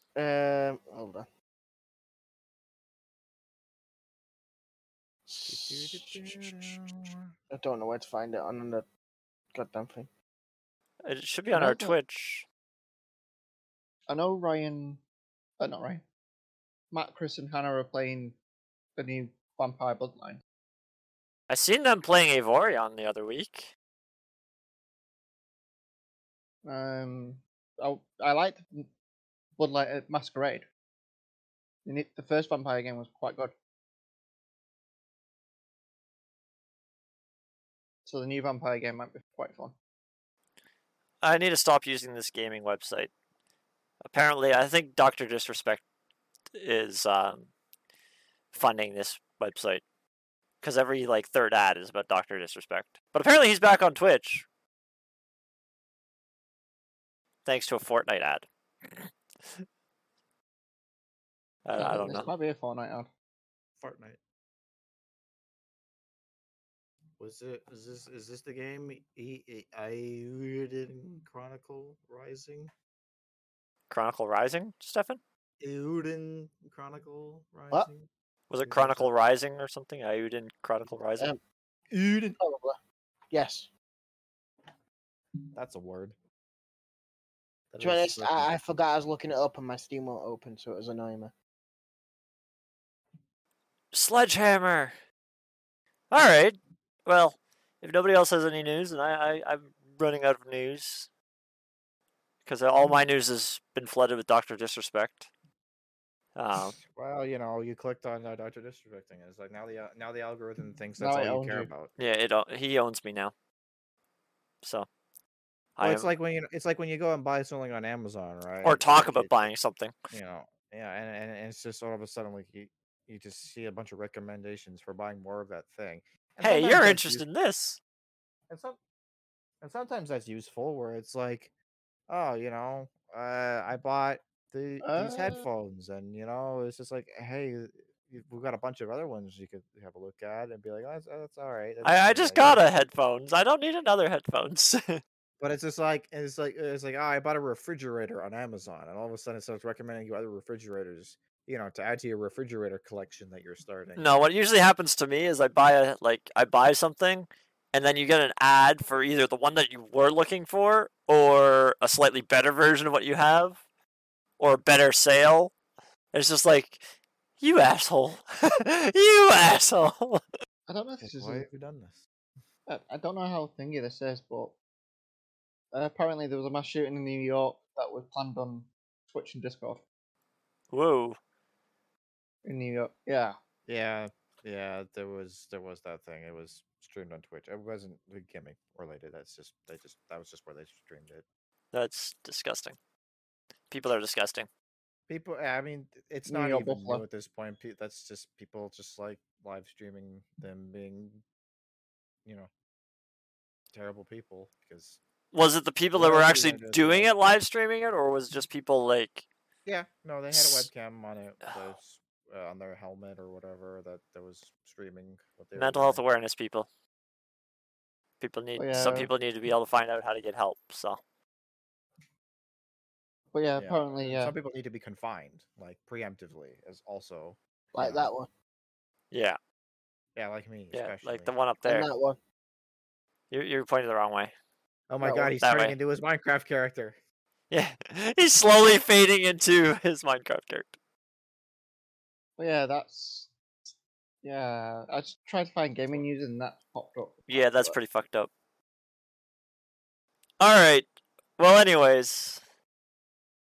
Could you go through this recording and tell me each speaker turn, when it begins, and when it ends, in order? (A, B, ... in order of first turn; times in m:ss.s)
0:00.2-0:01.2 A
0:05.3-0:08.8 A
0:05.5-0:07.3 B
0:09.5-0:10.1 A
0:11.0-0:12.4 C
0:11.5-0:12.0 D
0:14.1-0:15.0 D
0:15.6-0:16.0 D
0:16.9-0:18.4 D
0:19.0-0:20.4 D
0:21.5-0:23.7 C
0:26.6-0:28.9 D
0:29.6-0:30.6 D
0:31.8-0:33.5 D
0:38.0-0:39.7 D
0:41.2-0:43.1 C
0:44.0-0:45.8 C
0:46.5-0:47.5 C
0:48.5-0:49.8 C
0:50.6-0:54.4 C
0:57.4-0:58.4 C
1:01.6-1:02.3 C
1:01.8-1:03.1 D
1:03.8-1:04.2 B
1:07.2-1:12.7 B
1:13.9-1:15.2 C
1:15.6-1:18.1 B
1:18.5-1:21.3 C
1:18.6-1:19.1 B
1:21.9-1:22.4 B
1:22.4-1:22.8 A
1:23.3-1:23.7 A
1:25.5-1:26.1 B
1:27.7-1:28.5 B
1:27.8-1:31.3 A
1:33.9-1:34.9 C
1:36.1-1:41.1 C
1:42.4-1:45.3 C
1:46.4-1:46.8 C
1:46.5-1:51.9 B
1:51.0-1:51.7 D
1:52.0-1:53.3 C
1:55.8-1:56.1 C
1:55.8-1:59.5 B
1:58.6-1:59.9 C
2:00.1-2:07.2 B
2:06.4-2:07.8 C
2:08.5-2:08.8 B
2:09.6-2:11.5 B
2:12.1-2:22.8 B
2:14.8-2:15.4 D
2:21.8-2:25.0 C
2:25.4-2:34.1 B
2:34.0-2:43.6 C
2:44.4-2:45.5 C
2:46.1-2:46.8 C
2:47.4-2:50.2 C
2:50.7-2:51.4 D
2:51.0-2:52.0 B
2:52.7-2:54.5 D
2:55.7-2:59.8 D
3:00.7-3:01.2 C
3:02.4-3:03.4 D
3:03.7-3:11.2 B
3:11.7-3:12.8 C
3:13.7-3:14.5 C
3:15.1-3:21.2 B
3:16.3-3:17.0 D
3:22.2-3:22.5 B
3:23.7-3:25.0 B
3:25.3-3:29.2 C
3:25.9-3:27.1 B
3:29.6-3:36.0 B
3:30.3-3:30.7 C
3:35.5-3:36.7 C
3:38.2-3:41.0 C
3:38.6-3:39.1 D
3:43.3-3:44.3 D
3:43.6-3:48.1 B
3:47.7-3:48.3 A
3:49.1-3:49.4 C
3:50.1-3:51.3 B
3:50.7-3:51.9 C
3:51.6-3:52.2 A
3:53.3-3:54.3 C
3:54.9-3:57.0 B
3:55.0-3:55.4 A
3:55.4-3:55.8 C
3:57.5-4:00.7 C
4:02.4-4:03.3 D
4:04.2-4:07.8 D
4:05.8-4:06.1 B
4:07.3-4:08.3 C
4:10.4-4:10.9 C
4:11.4-4:12.4 C